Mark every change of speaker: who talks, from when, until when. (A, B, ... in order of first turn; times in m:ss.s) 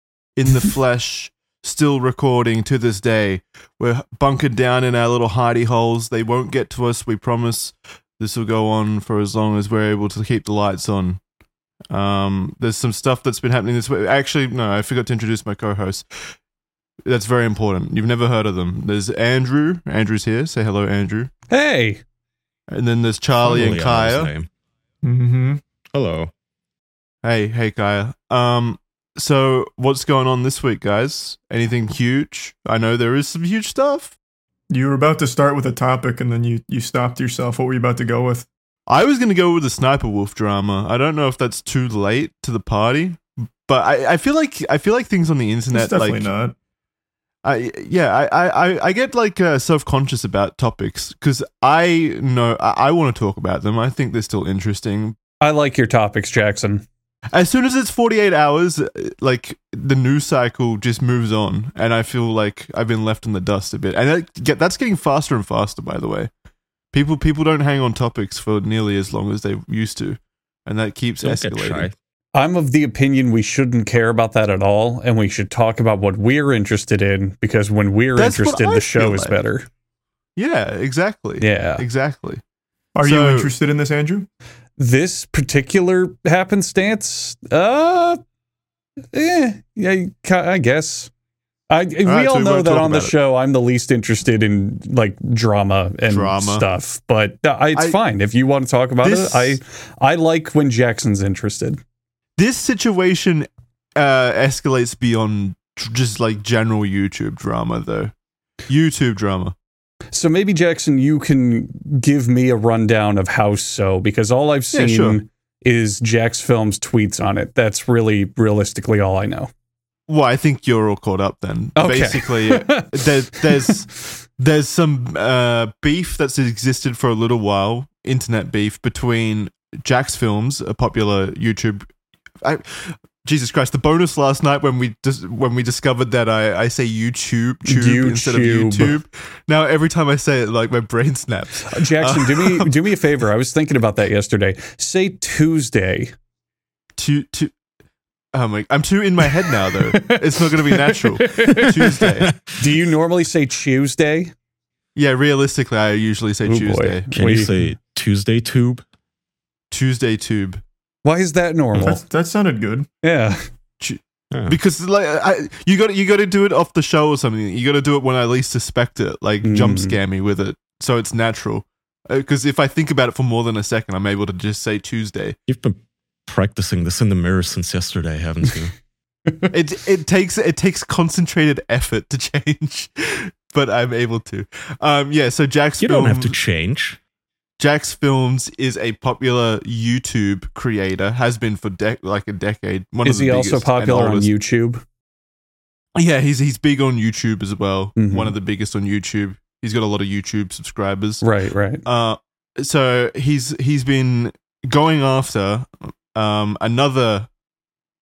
0:00.4-0:11.2 A
0:11.9-0:16.4 A
0:17.0-0:21.3 A
0:21.5-0:22.0 B
0:22.7-0:24.3 A
0:23.4-0:24.5 C
0:25.0-0:25.6 D
0:25.9-0:26.3 C
0:27.2-0:34.2 A
0:34.7-0:38.5 D
0:38.9-0:46.3 A
0:45.7-0:46.5 D
0:47.4-0:55.2 A
0:55.4-0:56.8 B
0:57.3-1:06.3 A
1:06.9-1:11.9 A
1:11.2-1:12.0 C
1:12.3-1:19.7 B
1:18.1-1:19.4 A
1:20.4-1:22.4 A
1:21.4-1:21.8 B
1:23.0-1:24.3 D
1:23.0-1:23.5 A
1:24.8-1:28.2 B
1:29.1-1:31.1 B
1:31.7-1:41.8 B
1:32.0-1:33.1 A
1:36.1-1:36.6 A
1:37.7-1:38.0 A
1:39.0-1:39.6 A
1:42.4-1:48.1 A
1:48.7-1:49.5 A
1:50.1-1:59.5 B
1:54.7-1:55.2 A
2:00.1-2:11.9 A
2:01.8-2:03.4 B
2:12.4-2:22.7 A
2:17.6-2:18.9 B
2:21.7-2:26.1 B
2:27.0-2:27.5 A
2:28.3-2:32.3 A
2:29.7-2:34.3 B
2:32.2-2:32.6 C
2:35.0-2:37.1 A
2:36.4-2:37.7 B
2:37.1-2:38.8 C
2:39.7-2:40.6 A
2:41.0-2:42.0 B
2:41.8-2:42.9 D
2:43.0-2:43.5 B
2:43.8-2:55.4 A
2:44.3-2:44.6 C
2:49.4-2:50.0 B
2:55.5-2:58.7 C
2:59.5-3:06.4 A
3:05.8-3:07.0 C
3:07.6-3:14.3 A
3:13.0-3:14.8 B
3:15.9-3:21.2 A
3:18.0-3:18.3 B
3:21.2-3:21.8 B
3:21.8-3:27.3 A